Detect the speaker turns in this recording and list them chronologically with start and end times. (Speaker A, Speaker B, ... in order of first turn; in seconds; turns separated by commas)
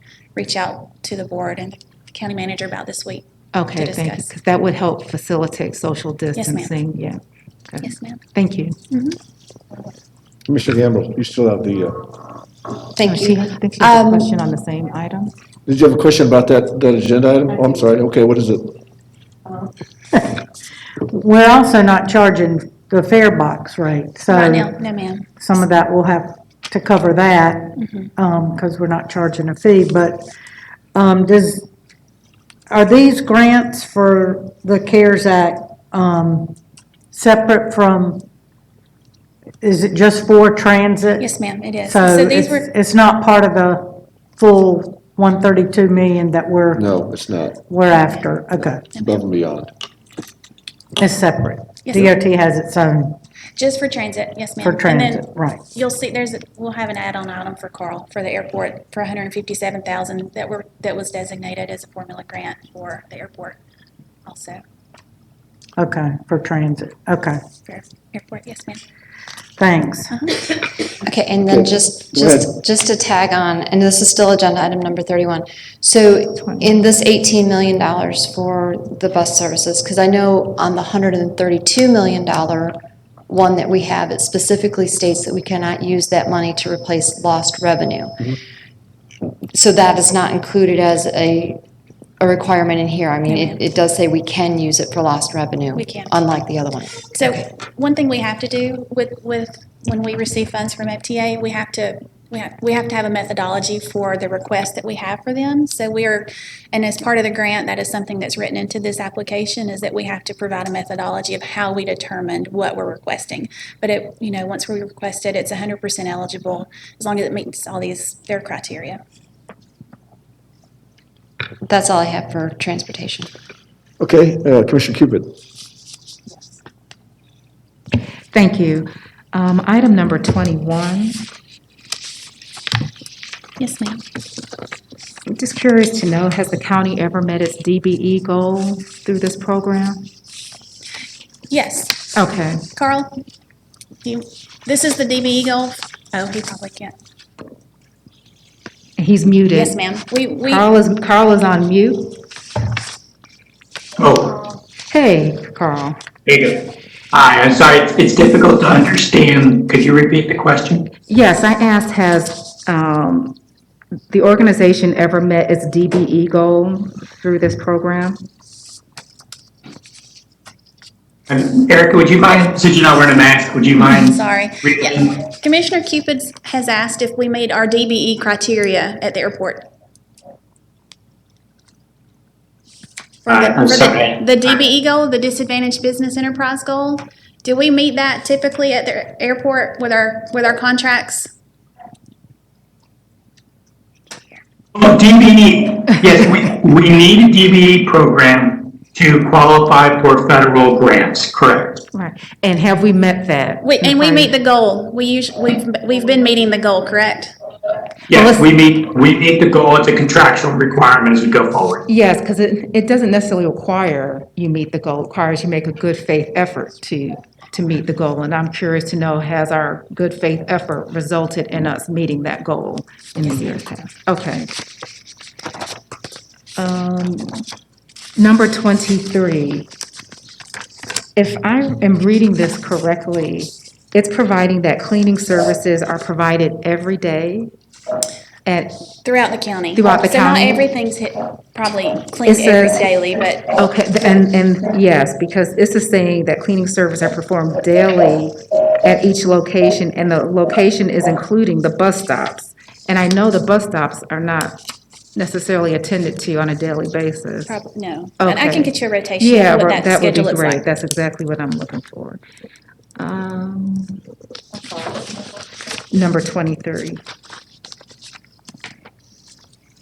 Speaker A: 0.4-4.3, Speaker B: 3.5-8.8, Speaker A: 6.3-6.7, Speaker A: 7.8-8.2, Speaker A: 8.9-9.2, Speaker C: 10.5-12.1, Speaker D: 12.9-14.3, Speaker B: 13.0-15.3, Speaker C: 15.7-18.8, Speaker E: 20.1-20.4, Speaker E: 21.1-24.7, Speaker A: 24.3-25.3, Speaker E: 25.4-30.3, Speaker A: 27.8-28.1, Speaker E: 30.9-31.6, Speaker E: 32.7-36.5, Speaker E: 37.1-38.2, Speaker E: 39.6-41.3, Speaker A: 41.2-42.7, Speaker E: 41.8-46.9, Speaker C: 46.8-47.6, Speaker E: 47.7-48.9, Speaker A: 47.9-48.2, Speaker A: 48.9-49.3, Speaker C: 48.9-49.7, Speaker E: 51.0-53.2, Speaker A: 51.9-52.1, Speaker A: 53.6-63.6, Speaker E: 54.6-55.6, Speaker A: 64.3-64.6, Speaker E: 65.8-67.4, Speaker A: 67.7-68.8, Speaker E: 69.6-70.1, Speaker A: 70.1-70.5, Speaker D: 71.0-82.8, Speaker C: 71.5-72.5, Speaker B: 76.4-76.8, Speaker D: 83.3-88.4, Speaker D: 89.2-91.6, Speaker D: 92.2-97.4, Speaker A: 93.3-93.6, Speaker A: 95.8-96.1, Speaker A: 97.1-119.0, Speaker D: 121.6-123.3, Speaker C: 124.0-125.3, Speaker B: 128.3-131.2, Speaker A: 133.6-134.0, Speaker B: 135.3-140.1, Speaker A: 141.5-142.0, Speaker B: 142.2-142.6, Speaker A: 142.8-143.2, Speaker A: 144.1-146.9, Speaker B: 149.0-149.8, Speaker A: 149.5-150.6, Speaker B: 150.4-152.2, Speaker F: 154.0-154.4, Speaker B: 154.9-156.0, Speaker F: 156.3-160.9, Speaker B: 161.1-163.4, Speaker B: 164.1-168.2, Speaker F: 171.3-175.2, Speaker A: 173.8-179.7, Speaker A: 183.3-191.3, Speaker F: 183.3-184.5, Speaker A: 194.1-194.4, Speaker F: 194.7-201.8, Speaker B: 201.9-204.3, Speaker A: 203.6-207.3, Speaker F: 208.1-211.8, Speaker B: 208.1-208.4, Speaker B: 211.9-224.5, Speaker B: 226.6-227.4, Speaker B: 228.2-229.7, Speaker B: 231.2-237.5, Speaker B: 238.4-238.8, Speaker A: 239.1-243.5, Speaker B: 239.8-240.6, Speaker B: 242.3-242.9, Speaker B: 243.6-254.6, Speaker B: 255.2-257.6, Speaker A: 257.5-260.6, Speaker B: 258.2-262.2, Speaker B: 263.0-264.0, Speaker B: 265.9-267.0